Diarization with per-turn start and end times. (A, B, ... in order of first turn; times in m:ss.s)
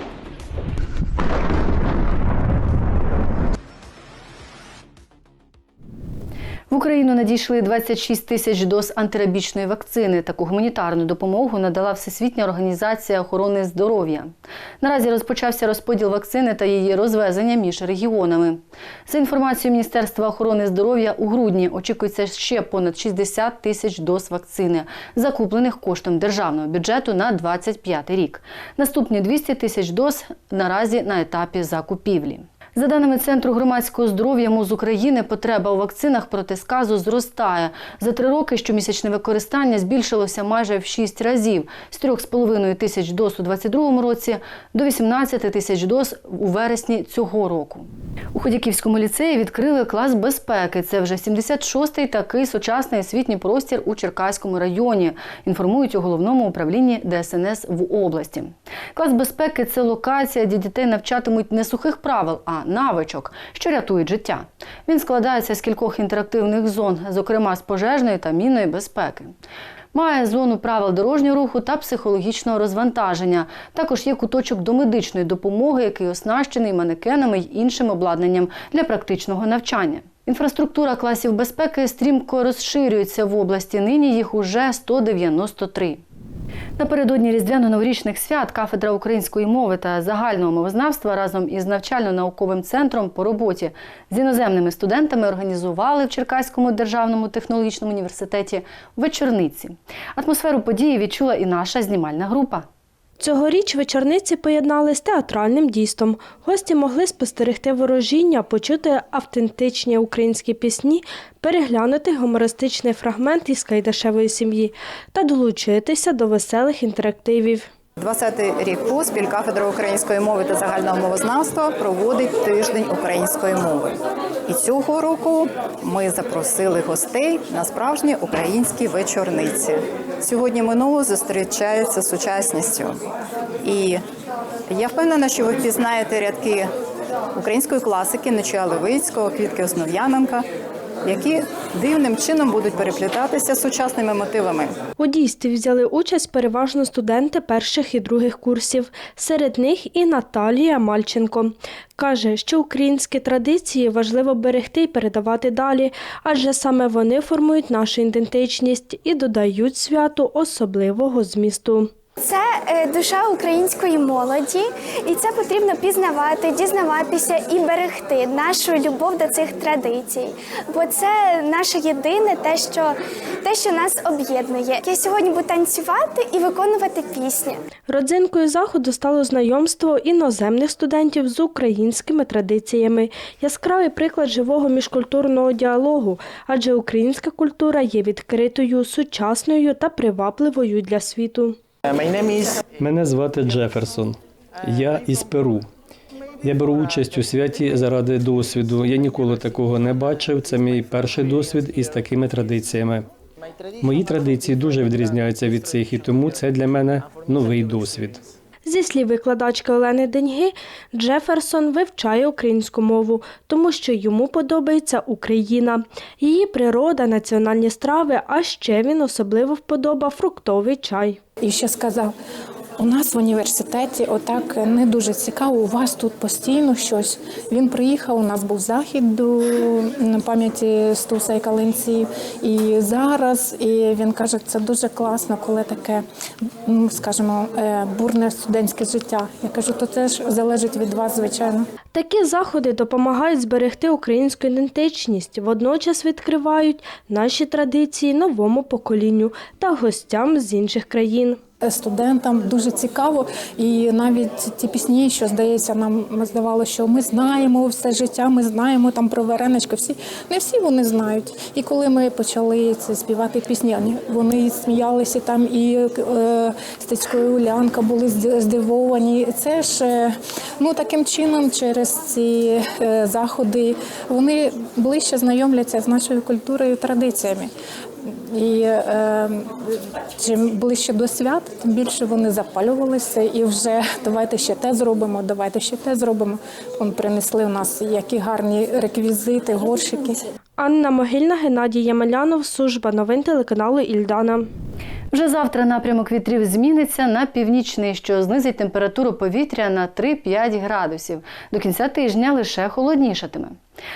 0:06.7-1:09.4 A
1:09.9-1:26.0 A
1:26.8-1:42.7 A
1:43.2-1:57.7 B
1:58.0-2:03.9 C
2:04.5-2:13.0 C
2:13.6-2:14.0 C
2:14.7-2:16.7 C
2:17.4-2:20.5 C
2:21.0-2:24.8 C
2:25.0-2:41.9 B
2:42.2-2:57.6 D
2:57.9-3:11.6 B
3:12.8-3:15.6 E
3:16.4-3:23.0 E
3:23.8-3:28.2 E
3:28.6-3:41.2 B
3:41.4-3:42.1 F
3:42.8-3:56.0 F
3:56.6-4:01.7 F
4:01.9-4:11.4 B
4:11.6-4:37.5 F
4:38.1-4:39.5 F
4:40.2-4:50.2 F
4:50.6-4:54.5 B
4:55.1-5:03.6 A